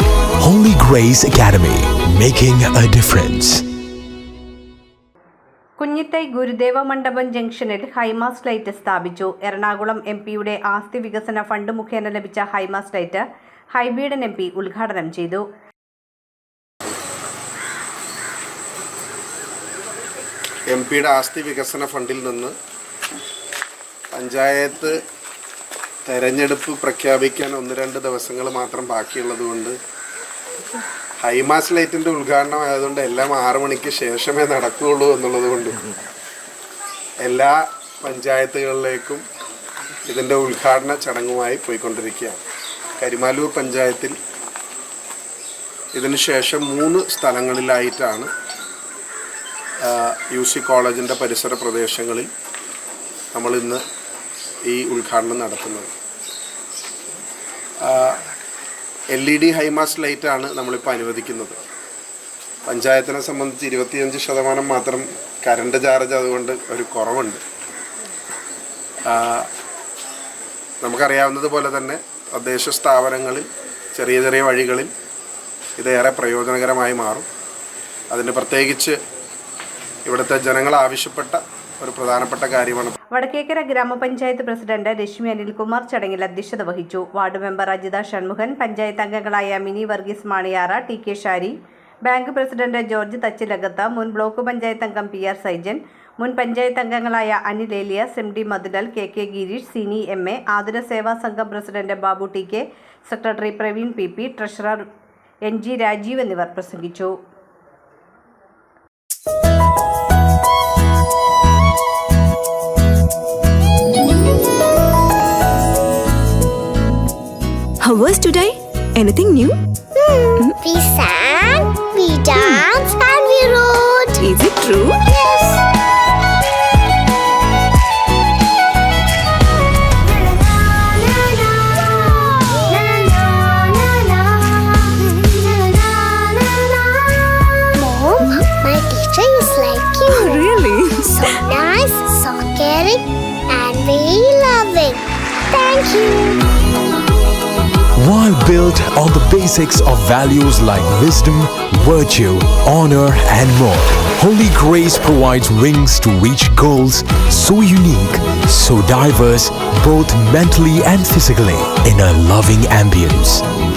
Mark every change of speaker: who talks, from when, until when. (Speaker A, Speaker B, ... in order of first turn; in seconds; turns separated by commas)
Speaker A: 0.4-3.6, Speaker B: 5.8-15.4, Speaker C: 20.7-22.6, Speaker C: 24.1-25.0, Speaker C: 26.1-29.8, Speaker C: 31.2-35.9, Speaker C: 37.2-39.2, Speaker C: 40.1-42.4, Speaker C: 43.0-44.2, Speaker C: 46.0-48.3, Speaker C: 49.8-52.3, Speaker C: 53.3-53.8, Speaker C: 54.7-55.9, Speaker C: 57.8-58.2, Speaker C: 59.1-61.6, Speaker C: 62.7-67.4, Speaker C: 69.0-69.5, Speaker C: 70.8-74.9, Speaker C: 75.8-77.3, Speaker C: 78.1-79.0, Speaker C: 80.1-82.9, Speaker B: 83.1-91.5, Speaker B: 92.1-104.8, Speaker B: 105.5-107.1, Speaker D: 117.8-119.6, Speaker E: 120.0-124.2, Speaker D: 124.2-125.0, Speaker E: 125.1-125.6, Speaker E: 130.3-146.5, Speaker D: 140.1-141.3, Speaker A: 148.0-163.4